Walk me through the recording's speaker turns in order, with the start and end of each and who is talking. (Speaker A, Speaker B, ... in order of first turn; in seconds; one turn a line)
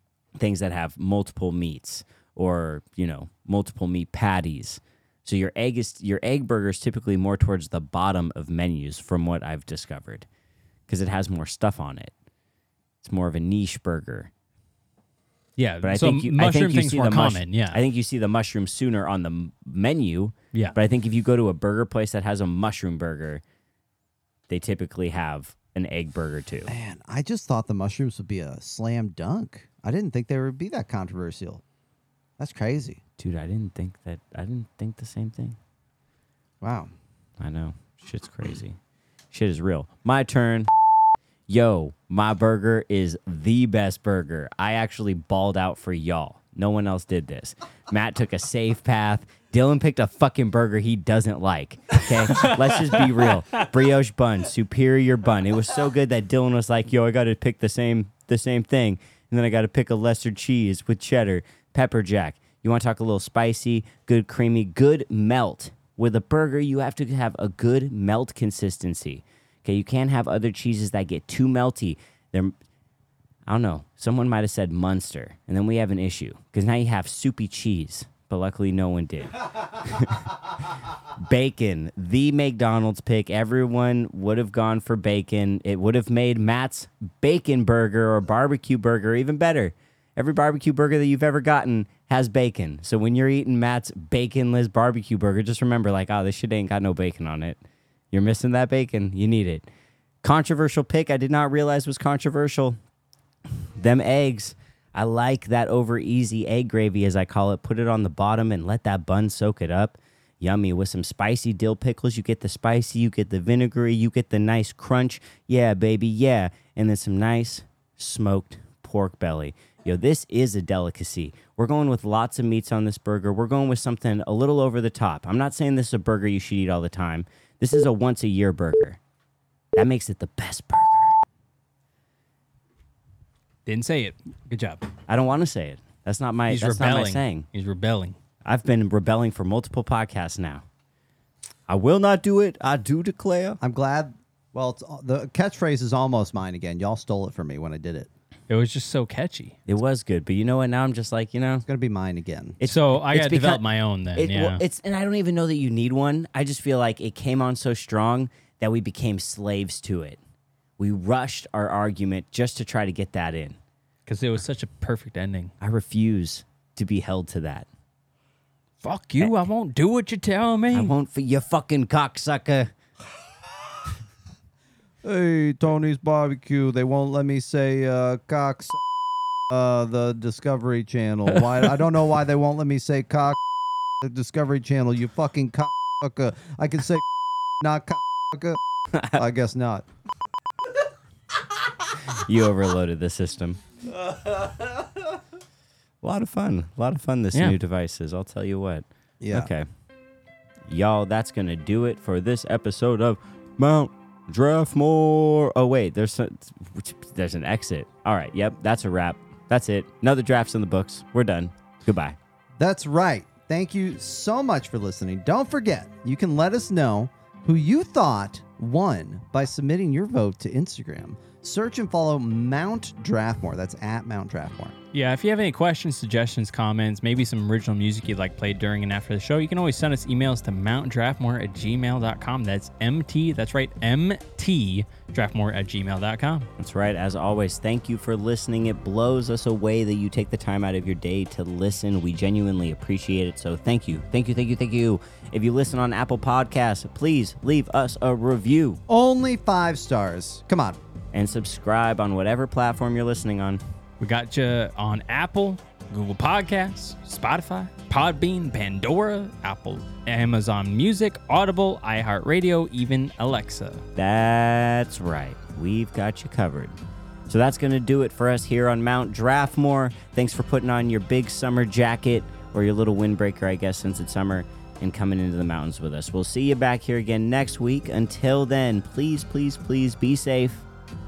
Speaker A: 0.3-10.3
Speaker A: 10.9-12.1
Speaker A: 13.0-14.3
Speaker B: 15.6-17.8
Speaker A: 15.8-23.4
Speaker A: 24.5-26.7
Speaker C: 26.7-31.6
Speaker C: 32.4-33.0
Speaker A: 33.2-35.6
Speaker C: 36.6-36.9
Speaker A: 37.4-38.8
Speaker A: 39.3-40.7
Speaker A: 41.5-72.5
Speaker B: 52.3-53.7
Speaker A: 73.5-97.6
Speaker A: 98.1-99.7
Speaker A: 100.2-102.8
Speaker A: 103.8-129.0
Speaker A: 129.8-131.2
Speaker B: 133.7-134.9
Speaker A: 135.1-137.4
Speaker B: 136.5-138.2
Speaker A: 138.4-140.6
Speaker A: 141.7-143.6
Speaker C: 143.6-148.1
Speaker B: 148.5-149.6
Speaker A: 149.7-151.7
Speaker C: 151.7-152.6
Speaker A: 152.6-153.6
Speaker B: 152.6-154.6
Speaker A: 154.2-160.2
Speaker A: 160.8-163.6
Speaker B: 164.1-165.5
Speaker A: 165.6-167.7
Speaker B: 168.8-170.9
Speaker A: 170.7-172.7
Speaker C: 175.0-178.8
Speaker C: 179.5-183.4
Speaker C: 184.0-187.1
Speaker C: 187.6-188.6
Speaker A: 188.9-189.2
Speaker C: 189.1-189.9
Speaker A: 191.9-193.6
Speaker C: 193.9-195.0
Speaker A: 196.0-199.7
Speaker C: 199.2-199.5
Speaker A: 200.7-212.2
Speaker C: 212.6-224.8
Speaker B: 224.9-236.5
Speaker A: 236.6-248.8
Speaker C: 248.9-250.8
Speaker A: 251.1-253.6
Speaker B: 254.0-263.9
Speaker A: 264.0-266.7
Speaker A: 267.3-280.7